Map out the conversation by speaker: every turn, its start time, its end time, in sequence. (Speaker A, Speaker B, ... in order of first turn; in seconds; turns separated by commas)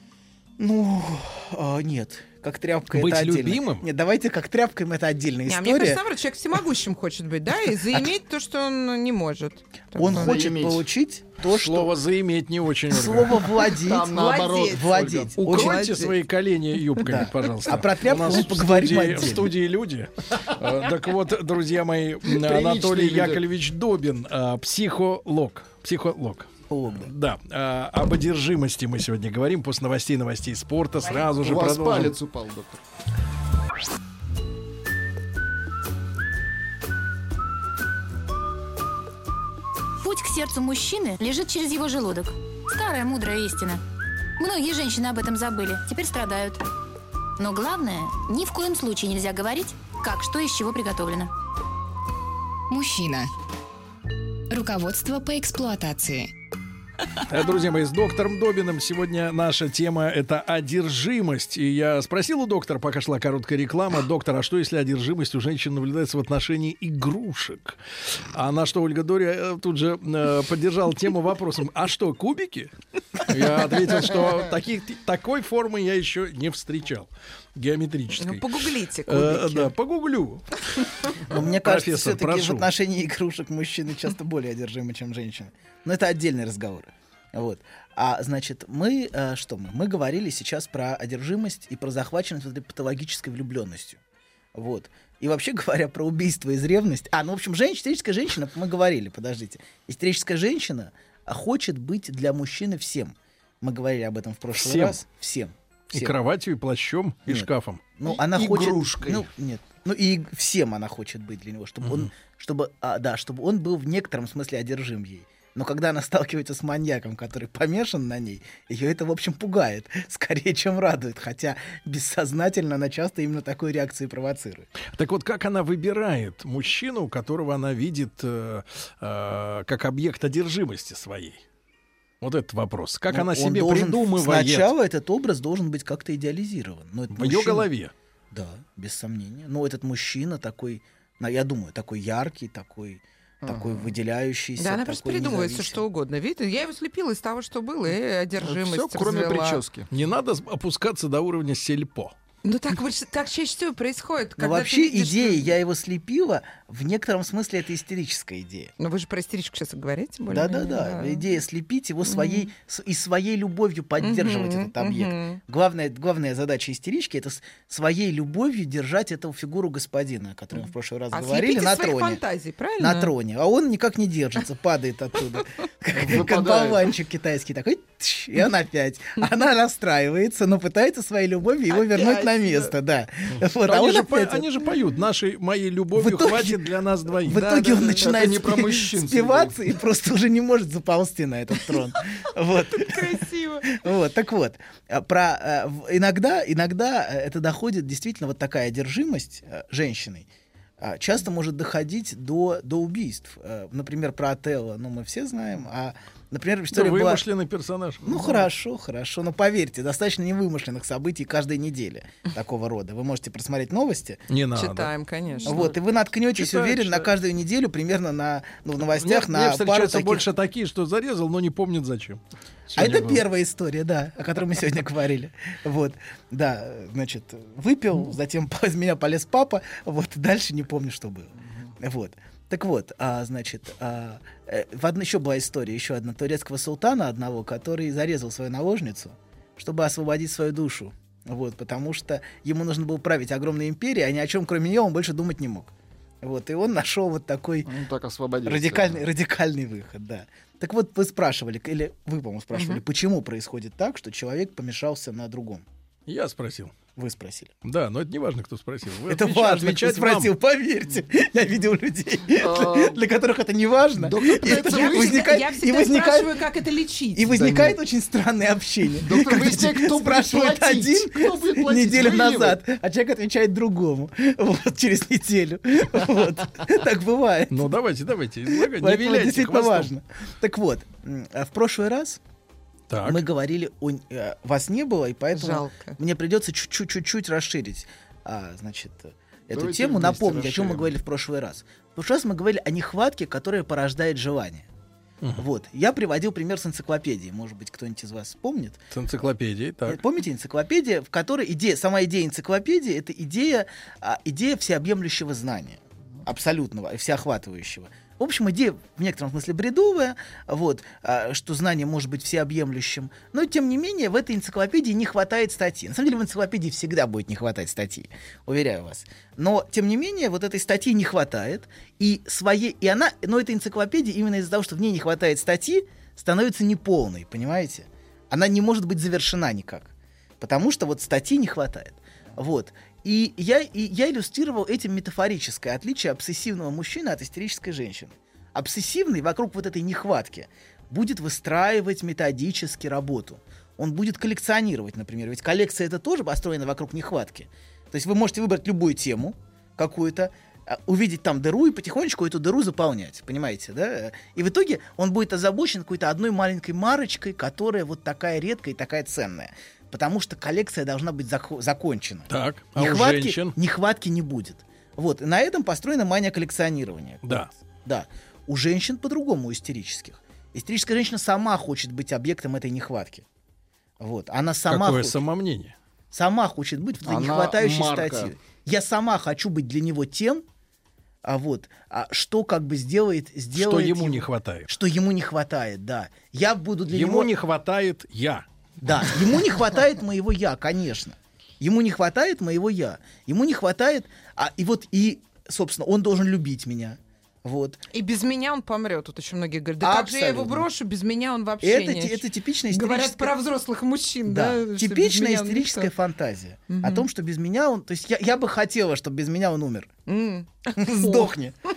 Speaker A: 0.6-6.0, Speaker B: 2.9-3.9, Speaker C: 5.5-10.3, Speaker A: 10.0-11.9, Speaker D: 10.0-10.9, Speaker B: 11.5-13.5, Speaker A: 12.9-14.1, Speaker D: 13.6-15.3, Speaker C: 14.0-16.1, Speaker A: 14.7-15.8, Speaker B: 15.4-26.5, Speaker A: 17.0-19.5, Speaker D: 20.4-20.9, Speaker D: 22.2-23.4, Speaker A: 26.7-27.1, Speaker B: 27.0-32.1, Speaker D: 31.1-32.8, Speaker E: 40.0-43.8, Speaker E: 44.4-46.6, Speaker E: 47.4-51.3, Speaker F: 52.7-53.3, Speaker F: 54.5-56.3, Speaker B: 57.3-67.8, Speaker B: 68.3-80.6, Speaker C: 78.2-79.7, Speaker A: 81.3-94.0, Speaker B: 81.3-82.7, Speaker A: 94.5-106.2, Speaker B: 104.5-105.0, Speaker B: 105.9-107.8, Speaker A: 107.3-124.7, Speaker D: 108.0-109.3, Speaker B: 111.8-112.1, Speaker B: 124.9-131.4, Speaker B: 132.2-134.8, Speaker A: 133.1-137.7, Speaker B: 137.1-137.9, Speaker A: 138.3-145.8, Speaker D: 143.4-143.9, Speaker C: 144.6-149.6, Speaker D: 148.4-149.9, Speaker B: 149.9-152.1, Speaker C: 152.4-155.5, Speaker A: 154.4-158.7, Speaker C: 158.8-161.3, Speaker A: 160.3-172.2, Speaker C: 162.0-162.5, Speaker C: 164.0-165.4, Speaker C: 171.1-173.1, Speaker A: 172.8-184.5, Speaker D: 175.9-176.9, Speaker C: 181.7-182.7, Speaker B: 183.4-187.5, Speaker A: 185.9-200.3, Speaker C: 187.3-188.1, Speaker D: 187.8-189.6, Speaker C: 192.7-193.8, Speaker A: 200.8-207.2, Speaker B: 206.7-208.0, Speaker A: 208.0-214.2, Speaker C: 208.1-208.4, Speaker B: 214.3-214.9, Speaker C: 214.5-215.7, Speaker A: 215.5-220.3, Speaker B: 216.3-217.1, Speaker B: 219.0-222.2, Speaker B: 222.7-223.2, Speaker A: 222.8-247.7, Speaker D: 247.7-249.1, Speaker A: 248.4-255.6, Speaker C: 252.5-252.8, Speaker B: 256.1-256.7, Speaker A: 257.0-257.5, Speaker B: 257.6-260.3, Speaker A: 259.1-266.4, Speaker D: 262.3-263.0, Speaker D: 263.9-265.3, Speaker C: 264.6-267.3, Speaker A: 267.1-277.7, Speaker D: 267.3-267.8, Speaker D: 269.0-272.6, Speaker B: 277.5-279.9, Speaker A: 278.5-282.2, Speaker B: 282.9-283.2, Speaker A: 283.0-294.7, Speaker C: 285.3-286.0, Speaker D: 289.5-290.9, Speaker A: 295.4-298.8, Speaker B: 298.9-300.0, Speaker A: 299.9-373.2, Speaker B: 362.3-363.6, Speaker A: 374.0-375.2, Speaker B: 374.7-375.7, Speaker A: 376.1-380.4, Speaker D: 377.0-378.3, Speaker A: 381.2-387.3, Speaker B: 383.5-384.7, Speaker B: 386.9-388.4, Speaker A: 388.8-397.8, Speaker C: 397.9-405.9, Speaker A: 399.8-400.7, Speaker A: 401.6-403.3, Speaker A: 404.2-409.9, Speaker C: 406.7-407.1, Speaker C: 410.1-411.3, Speaker A: 410.7-411.6